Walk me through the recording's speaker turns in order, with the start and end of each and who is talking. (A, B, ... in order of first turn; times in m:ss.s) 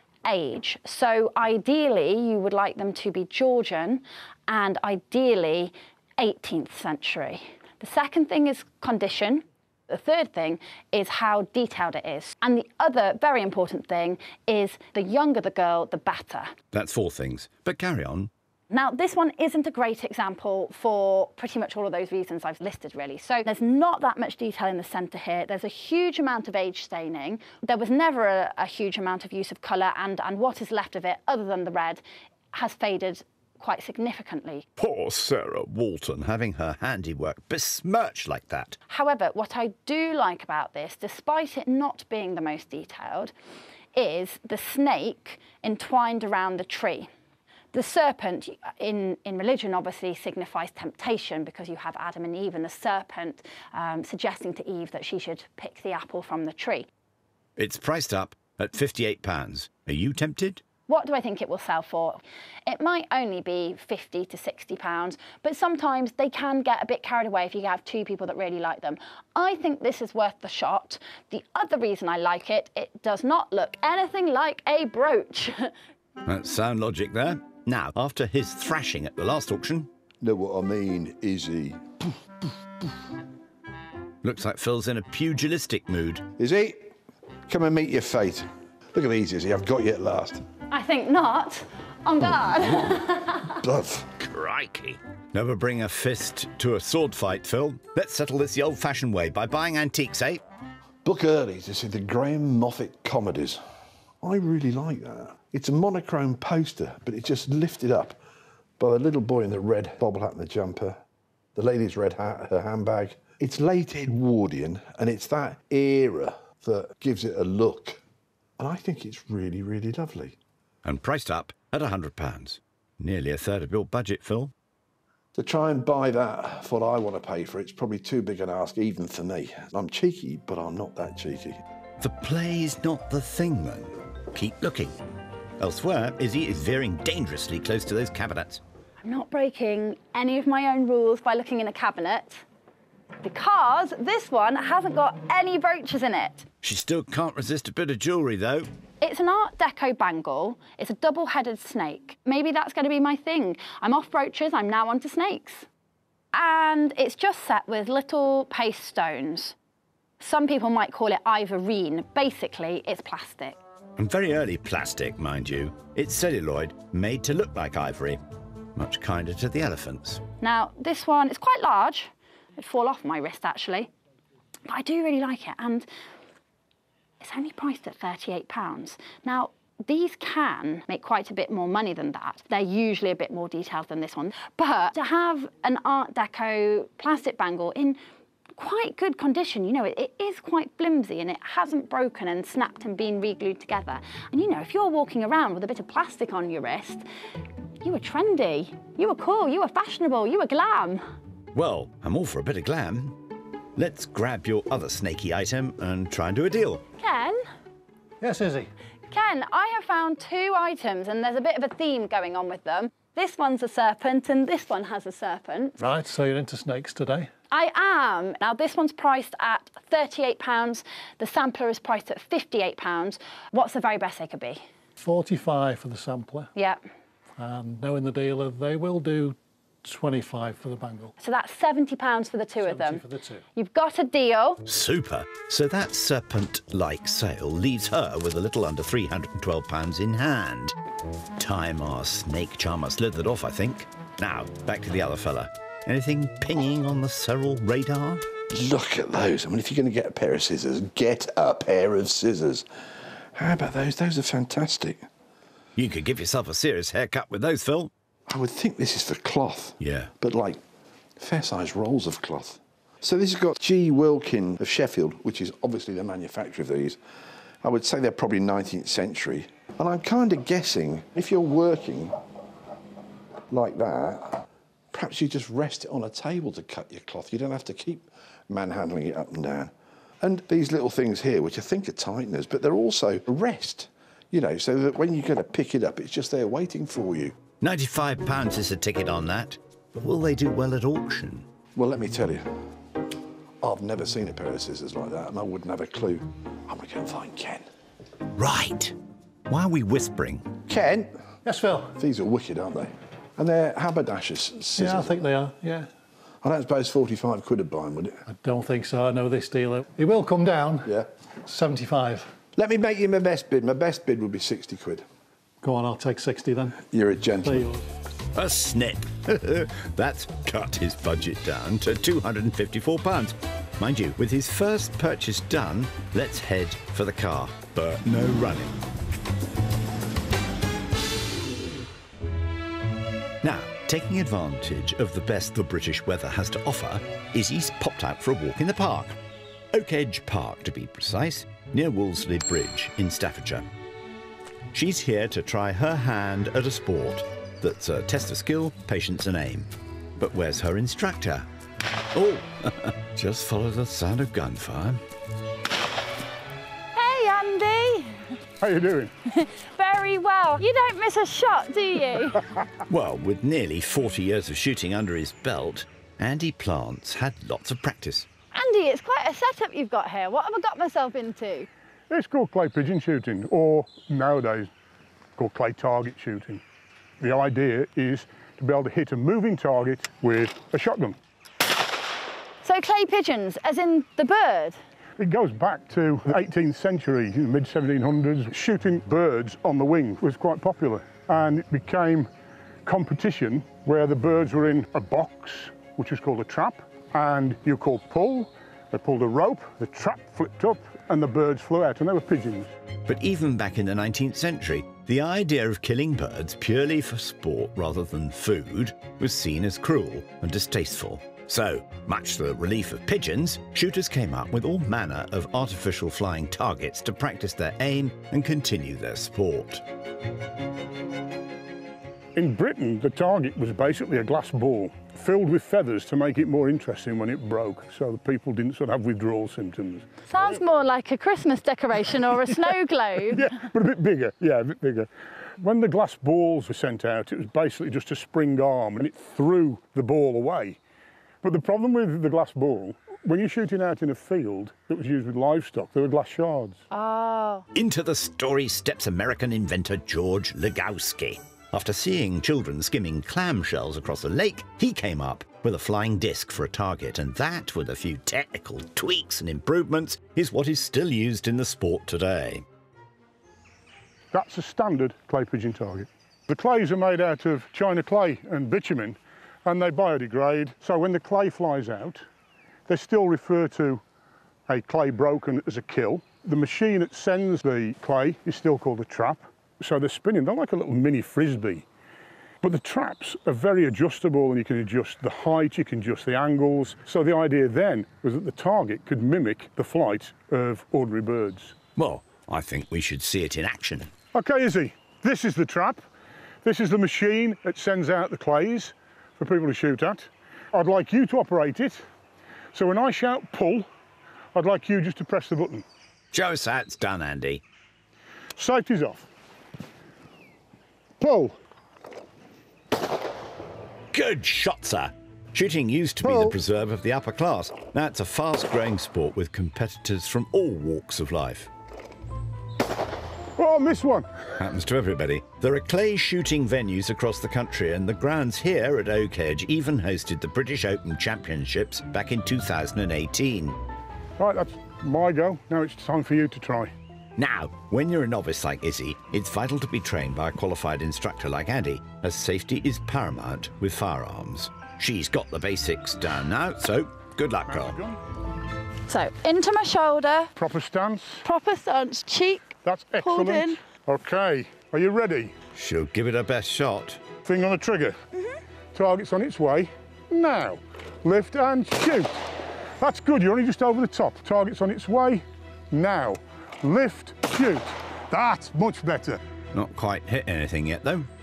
0:00.2-0:16.5 A
0:16.7-0:18.3 B
0:18.7-0:32.0 A
0:32.5-0:34.7 A
0:34.8-0:38.8 B
0:38.9-0:43.3 A
0:43.9-0:47.1 A
0:47.7-0:56.9 A
0:57.6-1:00.6 B
1:00.9-1:15.7 A
1:16.2-1:19.9 B
1:20.2-1:22.2 C
1:24.2-1:26.2 B
1:26.4-1:26.9 C
1:27.5-1:30.4 C
1:30.7-1:33.6 A
1:32.5-1:34.3 C
1:34.3-1:40.4 B
1:41.0-1:43.6 C
1:44.2-1:48.2 C
1:48.8-1:51.0 C
1:51.5-1:58.0 C
1:58.6-2:00.4 C
2:00.8-2:04.5 B
2:05.4-2:11.6 C
2:12.0-2:15.0 B
2:15.6-2:18.6 B
2:19.0-2:22.4 A
2:23.2-2:26.5 A
2:26.6-2:28.7 B
2:29.0-2:35.7 A
2:36.3-2:39.5 A
2:40.2-2:43.6 A
2:44.0-2:48.2 B
2:48.8-2:50.2 B
2:50.4-2:53.9 A
2:54.7-2:55.9 A
2:57.2-3:08.0 A
3:08.6-3:17.0 A
3:17.8-3:21.0 A
3:21.5-3:23.2 B
3:23.8-3:26.8 B
3:27.0-3:27.4 A
3:28.2-3:28.7 D
3:29.1-3:35.8 A
3:35.8-3:37.3 D
3:37.5-3:44.6 A
3:45.0-3:46.5 D
3:46.5-3:46.8 A
3:47.4-3:51.1 D
3:51.2-3:53.0 A
3:52.6-3:53.4 D
3:53.5-3:54.6 A
3:54.6-4:00.7 B
4:01.4-4:08.2 B
4:08.5-4:12.6 C
4:13.3-4:15.0 C
4:15.8-4:17.9 B
4:18.3-4:20.6 C
4:19.8-4:20.1 B
4:21.2-4:27.0 C
4:27.6-4:32.1 C
4:33.5-4:47.4 C
4:47.6-4:51.4 B
4:51.8-4:52.4 C
4:53.6-4:57.6 C
4:58.4-4:59.0 B
4:59.5-5:00.5 B
5:00.7-5:01.1 C
5:01.4-5:02.0 D
5:02.0-5:05.1 C
5:04.8-5:05.9 D
5:06.4-5:08.2 C
5:08.3-5:12.3 D
5:12.6-5:15.0 C
5:15.6-5:16.8 D
5:16.9-5:17.7 C
5:17.4-5:17.8 D
5:18.3-5:28.8 B
5:33.4-5:39.2 B
5:39.7-5:43.6 B
5:44.7-5:51.5 B
5:52.1-5:55.0 B
5:56.9-5:58.3 A
5:58.6-5:59.1 E
5:59.3-6:02.4 A
6:02.9-6:08.3 B
6:08.5-6:11.7 A
6:12.1-6:14.7 E
6:15.4-6:16.6 E
6:17.2-6:21.2 E
6:22.6-6:24.8 A
6:25.2-6:32.3 E
6:32.8-6:42.7 E
6:43.1-6:59.8 B
7:02.3-7:10.6 E
7:10.3-7:13.4 A
7:13.3-7:20.8 E
7:21.4-7:26.8 E
7:26.9-7:27.6 A
7:27.7-7:42.6 B
7:44.3-7:52.2 E
7:52.9-7:54.0 E
7:54.7-8:01.8 E
8:02.6-8:11.8 E
8:12.0-8:14.1 B
8:14.3-8:16.0 E
8:16.6-8:22.0 E
8:22.7-8:23.9 E
8:24.5-8:25.8 E
8:26.3-8:27.6 B
8:28.6-8:29.2 E
8:31.2-8:31.6 E
8:34.1-8:41.7 B
8:43.6-8:44.4 E
8:44.6-8:53.8 B
8:54.4-8:56.9 E
8:57.4-9:08.0 B
9:07.7-9:08.2 E
9:09.1-9:10.5 A
9:10.6-9:11.4 E
9:11.4-9:13.8 A
9:12.8-9:15.5 E
9:15.7-9:17.3 B
9:17.4-9:18.2 E
9:18.9-9:22.4 E
9:23.0-9:29.4 E
9:29.7-9:31.3 B